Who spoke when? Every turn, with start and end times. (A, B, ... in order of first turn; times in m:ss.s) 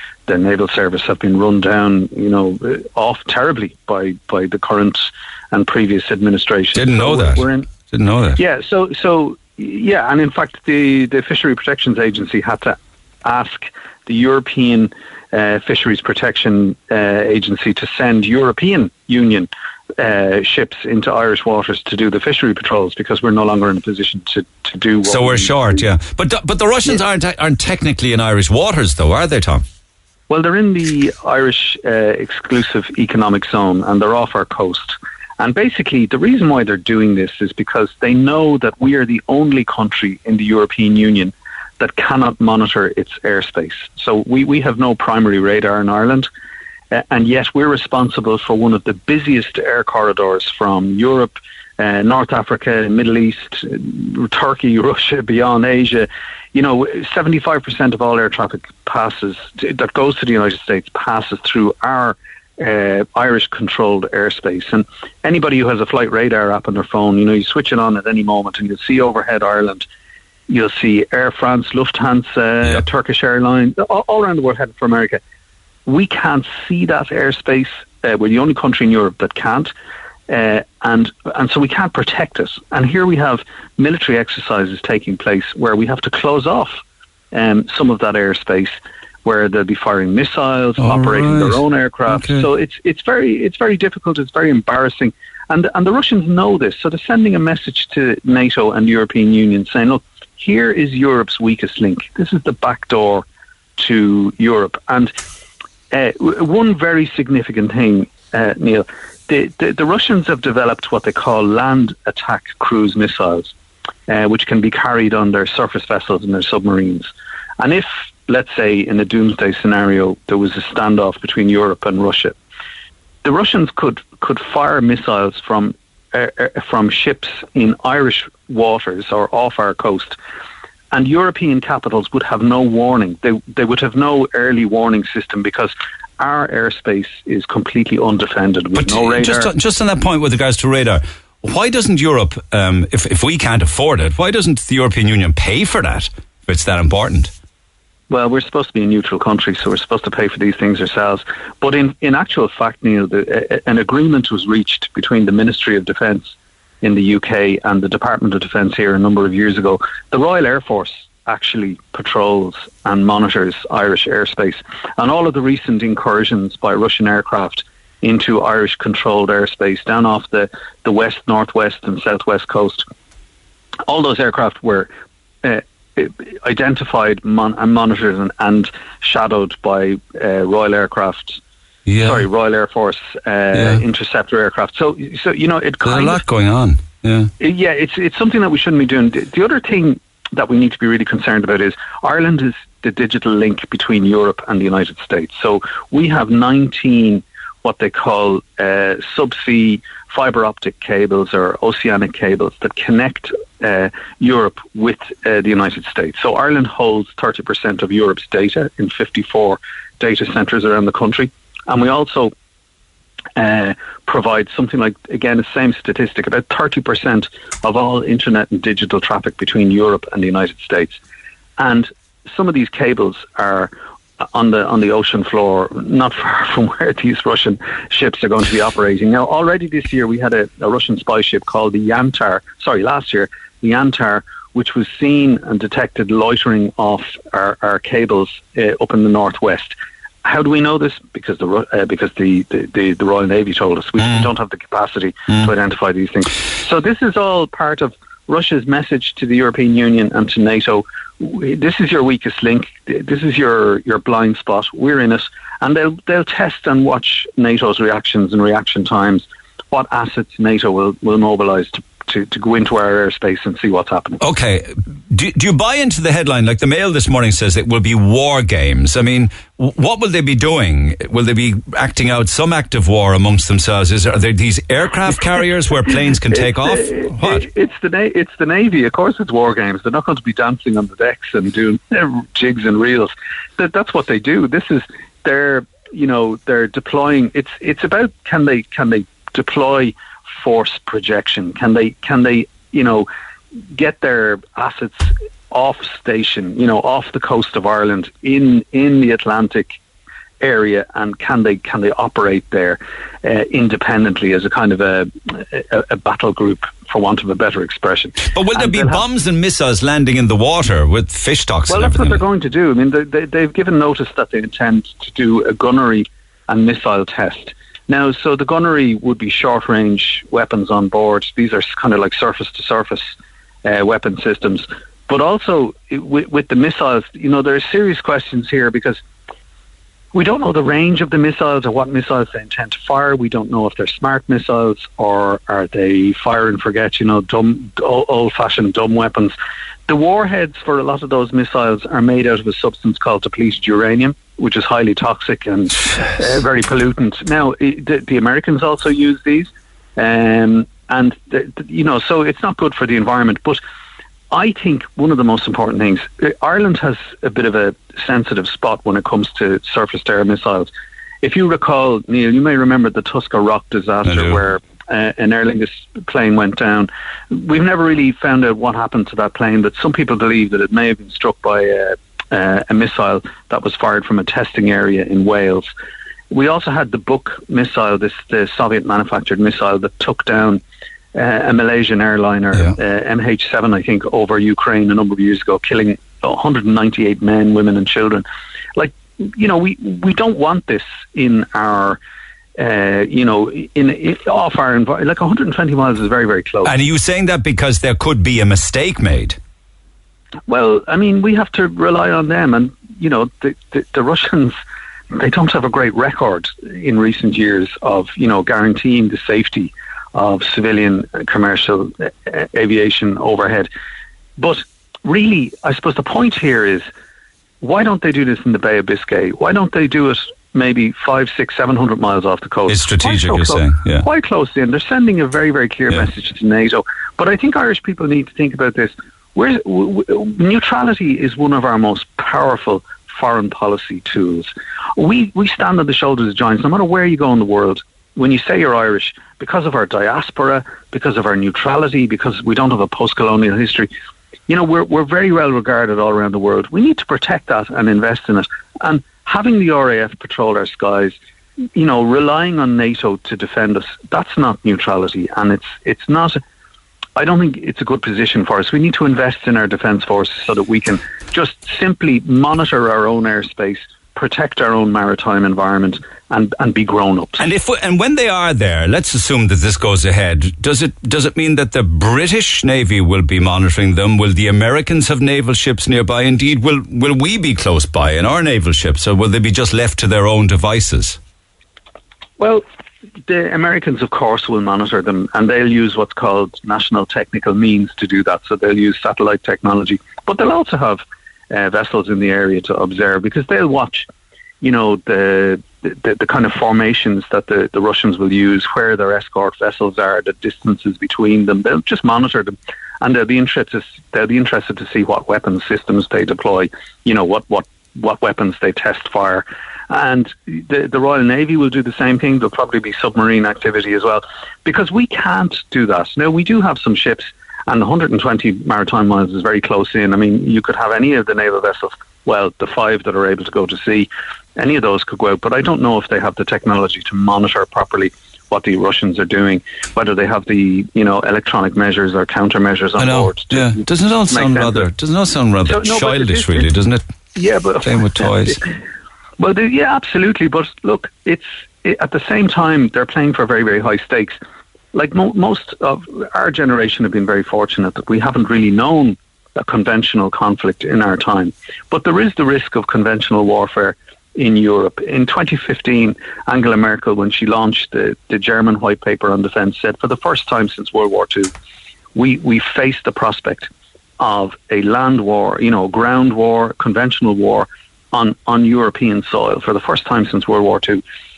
0:00.3-0:07.7 A
0:06.7-0:08.4 B
0:08.4-0:25.8 A
0:25.0-0:29.6 B
0:30.3-0:46.3 A
0:46.9-1:09.9 A
1:10.5-1:15.2 A
1:15.9-1:19.7 A
1:20.3-1:26.8 A
1:27.3-1:43.2 A
1:30.8-1:32.5 B
1:43.8-1:45.2 A
1:45.9-1:53.5 A
1:54.1-2:02.4 A
2:03.2-2:10.2 A
2:10.9-2:19.5 A
2:18.8-2:27.3 B
2:28.1-2:52.9 A
2:53.9-2:54.9 A
2:55.4-3:01.4 A
3:01.9-3:02.3 B
3:02.0-3:06.2 A
3:03.5-3:03.8 B
3:05.8-3:07.3 B
3:07.4-3:32.3 A
3:33.4-3:41.0 A
3:41.6-3:43.7 A
3:44.3-4:24.2 A
4:24.2-4:37.5 B
4:36.3-4:53.1 A
4:53.7-4:59.7 A
5:00.4-5:09.0 A
5:08.3-5:12.2 B
5:11.7-5:29.0 A
5:30.1-5:39.3 A
5:39.9-5:53.6 A
5:54.3-6:00.7 A
6:01.2-6:15.7 A
6:04.0-6:04.4 B
6:16.3-6:20.6 A
6:21.1-6:32.0 A
6:32.6-6:36.7 A
6:36.6-6:39.4 B
6:40.5-6:44.6 A
6:45.1-6:53.7 A
6:54.4-6:56.9 A
6:57.6-7:23.9 A
7:02.7-7:04.0 B
7:24.5-7:31.2 A
7:31.7-7:36.4 A
7:37.2-7:47.4 A
7:47.4-8:01.2 B
8:02.4-8:02.6 A
8:03.3-8:14.1 A
8:14.6-8:54.9 A
8:53.0-8:57.0 B
8:55.6-8:56.7 A
8:57.3-8:58.7 A
8:57.8-8:58.6 B
8:59.4-9:04.4 A
9:04.9-9:21.5 A
9:22.1-9:31.0 A